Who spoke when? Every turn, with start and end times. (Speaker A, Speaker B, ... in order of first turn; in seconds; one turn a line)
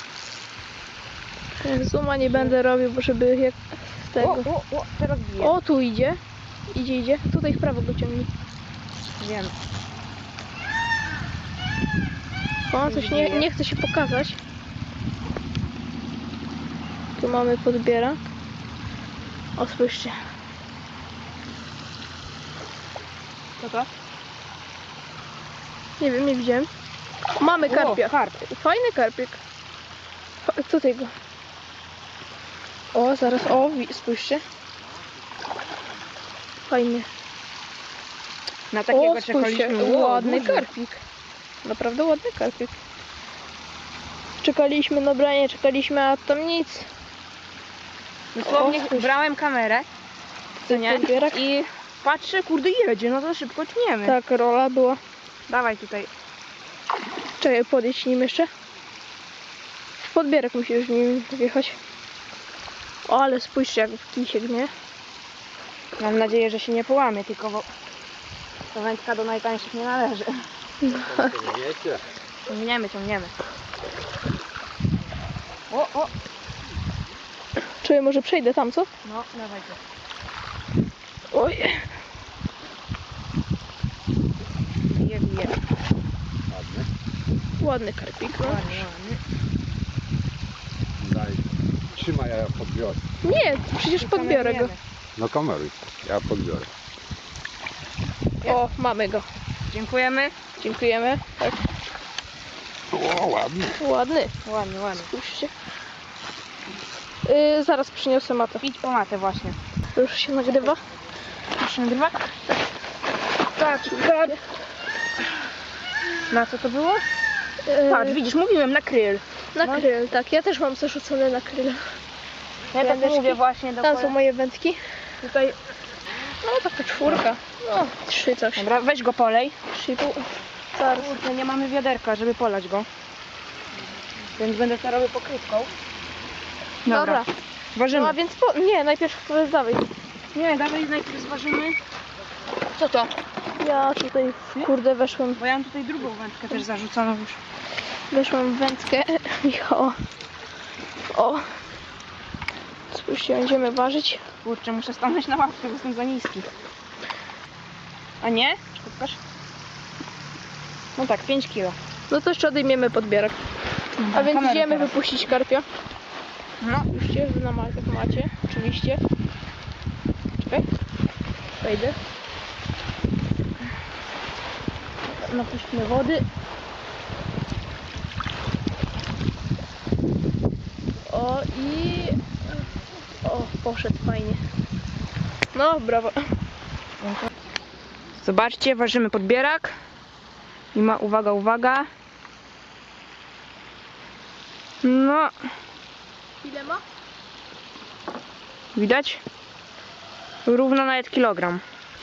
Speaker A: 1.6-4.5
Speaker B: 2.2-2.5
Speaker B: 4.2-5.5
Speaker A: 5.4-8.3
Speaker B: 9.2-9.5
Speaker A: 12.7-14.4
Speaker B: 12.8-13.5
Speaker A: 17.2-18.2
Speaker A: 19.6-20.1
Speaker B: 23.6-23.9
Speaker A: 26.0-26.7
Speaker A: 27.4-29.4
Speaker B: 27.6-28.4
Speaker A: 30.4-31.1
Speaker A: 32.9-34.4
Speaker A: 36.7-37.1
Speaker B: 38.7-40.7
Speaker A: 38.9-41.0
Speaker A: 41.6-42.8
Speaker A: 44.4-46.9
Speaker B: 48.3-49.9
Speaker A: 48.4-49.1
Speaker A: 50.6-51.5
Speaker B: 50.7-54.2
Speaker A: 54.0-55.0
Speaker B: 55.5-56.1
Speaker A: 57.4-58.5
Speaker A: 60.0-61.8
Speaker A: 63.0-64.7
Speaker B: 66.0-67.7
Speaker B: 68.7-70.4
Speaker A: 70.8-71.3
Speaker C: 71.2-72.0
Speaker B: 72.5-73.3
Speaker B: 75.7-76.1
Speaker A: 77.8-78.9
Speaker B: 79.0-79.8
Speaker A: 81.3-81.8
Speaker B: 84.8-85.5
Speaker C: 86.5-86.9
Speaker A: 87.6-88.8
Speaker B: 88.4-89.2
Speaker C: 91.0-93.0
Speaker A: 93.2-94.7
Speaker B: 94.0-94.8
Speaker C: 95.2-96.7
Speaker A: 98.4-99.2
Speaker B: 99.7-100.3
Speaker A: 100.6-101.6
Speaker C: 102.9-103.7
Speaker A: 103.7-104.3
Speaker B: 104.4-105.1
Speaker A: 105.0-105.5
Speaker A: 107.2-108.6
Speaker B: 108.6-109.6
Speaker A: 109.9-110.8
Speaker B: 111.6-112.3
Speaker B: 113.5-114.4
Speaker A: 113.8-114.4
Speaker B: 116.3-117.1
Speaker A: 117.7-118.2
Speaker B: 117.8-119.9
Speaker A: 119.5-121.8
Speaker B: 122.7-124.2
Speaker A: 122.7-124.8
Speaker B: 125.2-125.5
Speaker A: 126.4-128.7
Speaker B: 128.6-129.6
Speaker A: 129.7-131.2
Speaker B: 130.9-132.9
Speaker B: 134.3-135.7
Speaker B: 136.8-137.2
Speaker A: 136.8-137.3
Speaker B: 137.7-138.2
Speaker A: 137.9-139.9
Speaker B: 140.3-141.8
Speaker B: 142.7-143.1
Speaker A: 143.6-145.4
Speaker B: 145.4-147.4
Speaker A: 148.1-149.9
Speaker A: 151.1-151.5
Speaker A: 152.9-154.2
Speaker B: 154.4-156.5
Speaker B: 158.2-159.2
Speaker B: 160.9-161.8
Speaker A: 162.1-163.4
Speaker B: 164.0-165.0
Speaker A: 164.1-165.7
Speaker B: 166.6-166.9
Speaker A: 166.9-169.0
Speaker A: 170.4-170.7
Speaker A: 171.6-171.9
Speaker B: 175.2-176.2
Speaker A: 181.1-182.6
Speaker A: 183.2-184.4
Speaker A: 185.5-186.2
Speaker B: 188.2-189.8
Speaker B: 190.7-191.9
Speaker B: 194.8-195.3
Speaker A: 196.4-196.8
Speaker B: 198.7-199.2
Speaker B: 200.4-201.6